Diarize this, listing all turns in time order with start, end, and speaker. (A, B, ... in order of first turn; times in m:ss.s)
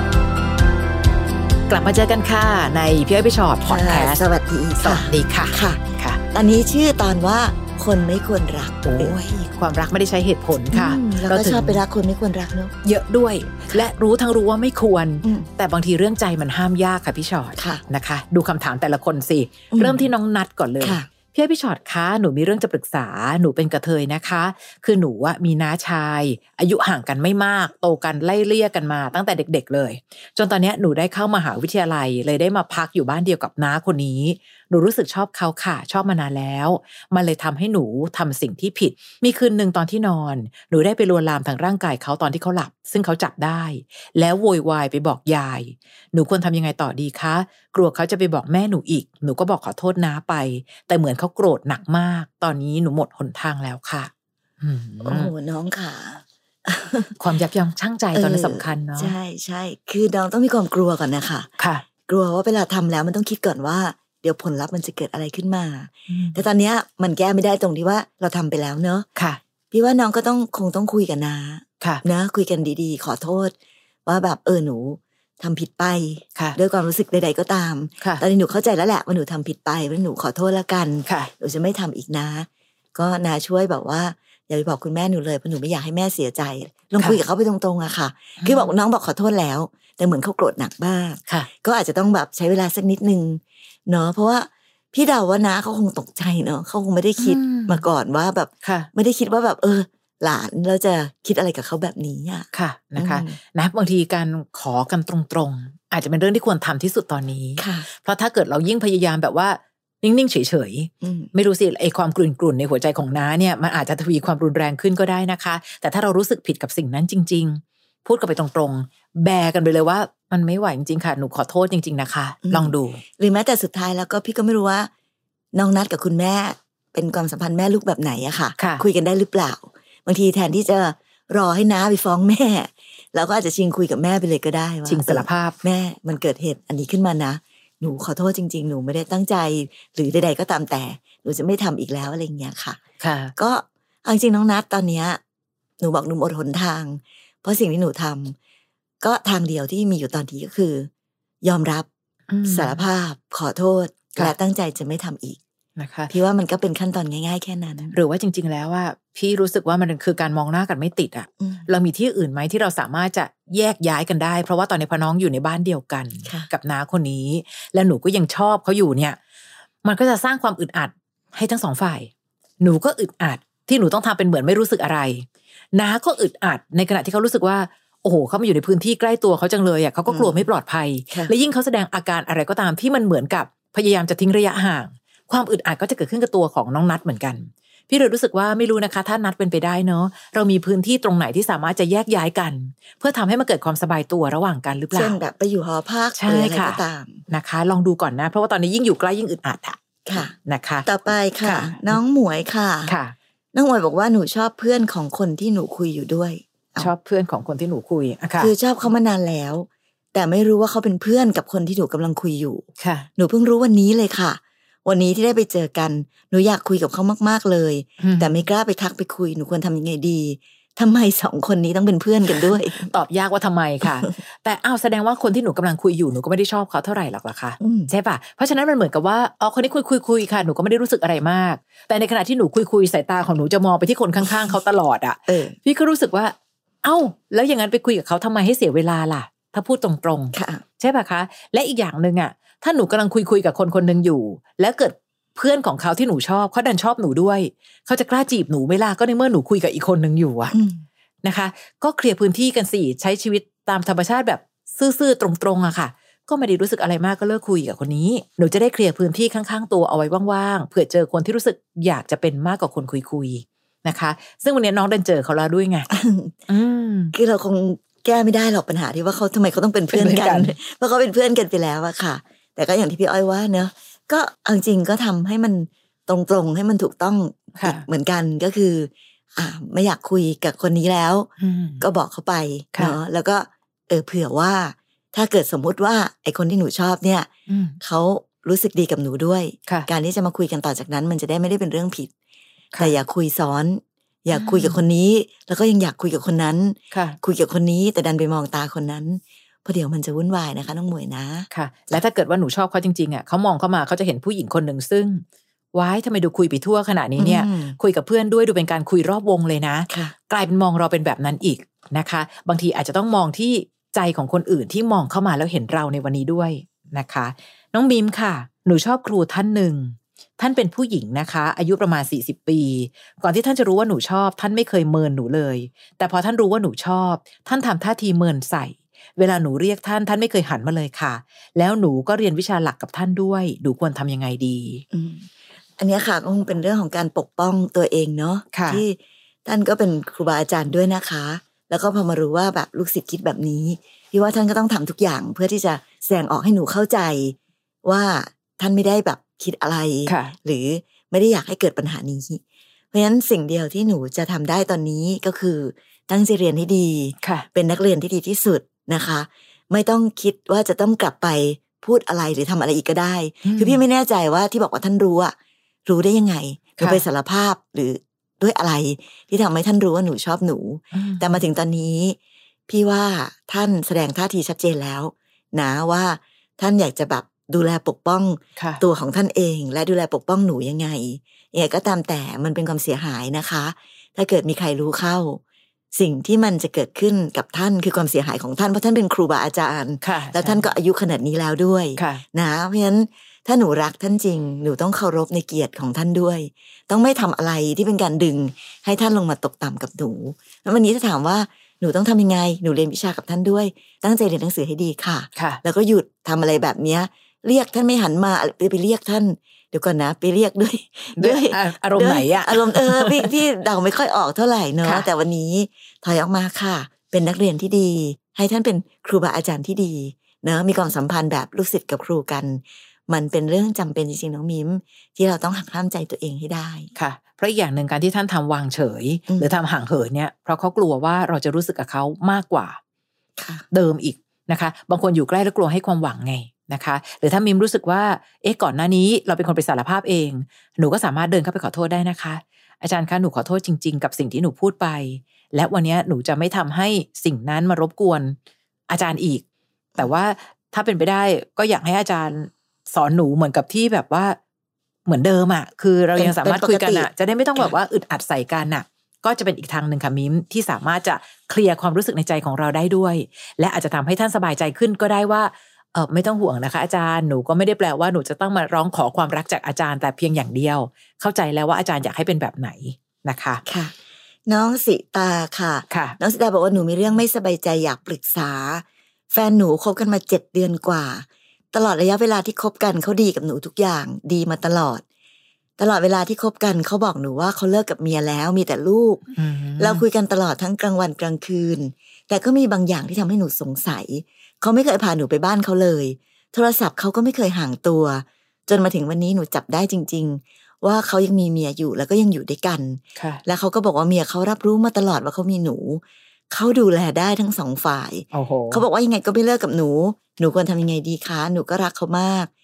0:01.7-0:04.2 A
0:03.7-0:09.4 B
0:04.8-0:06.2 A
0:08.8-0:11.8 A
0:10.7-0:12.7 B
0:12.8-0:55.3 A
0:15.2-0:15.5 B
0:17.6-0:17.8 B
0:19.7-0:20.1 B
0:20.8-0:21.1 B
0:55.0-0:57.2 B
0:57.2-0:59.2 A
0:58.1-1:01.5 B
1:01.6-1:01.9 A
1:02.1-1:09.1 B
1:06.1-1:06.4 A
1:09.7-1:13.5 B
1:14.1-1:43.4 B
1:21.1-1:21.3 A
1:28.4-1:28.7 A
1:37.2-1:37.8 A
1:38.6-1:38.9 A
1:42.5-2:03.0 A
1:47.6-1:47.9 B
1:51.0-1:51.3 B
2:02.4-2:04.9 B
2:05.5-2:22.8 B
2:08.6-2:08.8 A
2:14.9-2:15.6 A
2:23.0-2:23.3 A
2:23.4-2:25.2 B
2:25.8-2:28.4 B
2:29.0-2:30.9 B
2:31.4-2:31.9 B
2:32.3-2:32.8 A
2:32.5-2:35.4 B
2:35.8-2:36.1 A
2:36.1-2:37.9 B
2:37.9-2:49.2 A
2:49.8-3:15.2 A
3:00.1-3:00.5 B
3:14.9-3:17.2 B
3:16.2-3:19.8 A
3:20.1-3:20.3 B
3:20.3-3:20.8 A
3:20.8-3:22.9 B
3:21.4-3:22.0 A
3:22.8-3:23.2 A
3:23.5-3:26.9 B
3:26.8-3:28.5 A
3:28.4-3:32.7 B
3:32.8-3:33.1 A
3:33.2-3:42.9 B
3:38.0-3:38.4 A
3:42.3-4:10.5 A
3:47.6-3:47.9 B
3:55.3-3:55.5 B
4:00.3-4:00.6 B
4:10.5-4:10.8 B
4:11.2-4:25.9 A
4:25.9-4:26.4 B
4:26.5-4:27.1 A
4:27.1-4:47.3 B
4:29.9-4:30.6 A
4:37.6-4:37.8 A
4:41.4-4:41.8 A
4:47.5-4:47.8 A
4:47.8-4:52.1 B
4:52.8-5:01.5 B
4:54.3-4:54.8 A
4:56.9-4:57.2 A
5:01.5-5:34.8 A
5:07.2-5:07.8 B
5:09.9-5:10.1 B
5:34.9-5:35.2 B
5:35.8-5:52.4 B
5:38.5-5:38.8 A
5:50.1-5:50.3 A
5:52.9-6:05.3 B
5:57.2-5:57.5 A
6:03.4-6:03.8 A
6:05.8-6:12.2 B
6:06.8-6:07.0 A
6:10.9-6:11.4 A
6:12.7-6:25.4 B
6:18.6-6:18.8 A
6:25.9-7:06.9 B
6:30.0-6:30.6 A
6:32.0-6:32.2 A
6:45.4-6:45.6 A
6:51.2-6:53.3 A
7:06.9-7:12.8 A
7:13.4-7:13.6 B
7:13.7-7:28.4 A
7:28.9-7:29.4 A
7:30.0-7:34.4 A
7:35.0-7:53.6 A
7:36.2-7:37.1 B
7:53.6-7:53.9 B
7:54.5-8:05.0 B
7:55.9-7:56.2 A
8:05.8-8:09.2 B
8:09.4-8:10.0 A
8:09.8-8:32.5 B
8:23.2-8:23.4 A
8:28.3-8:28.8 A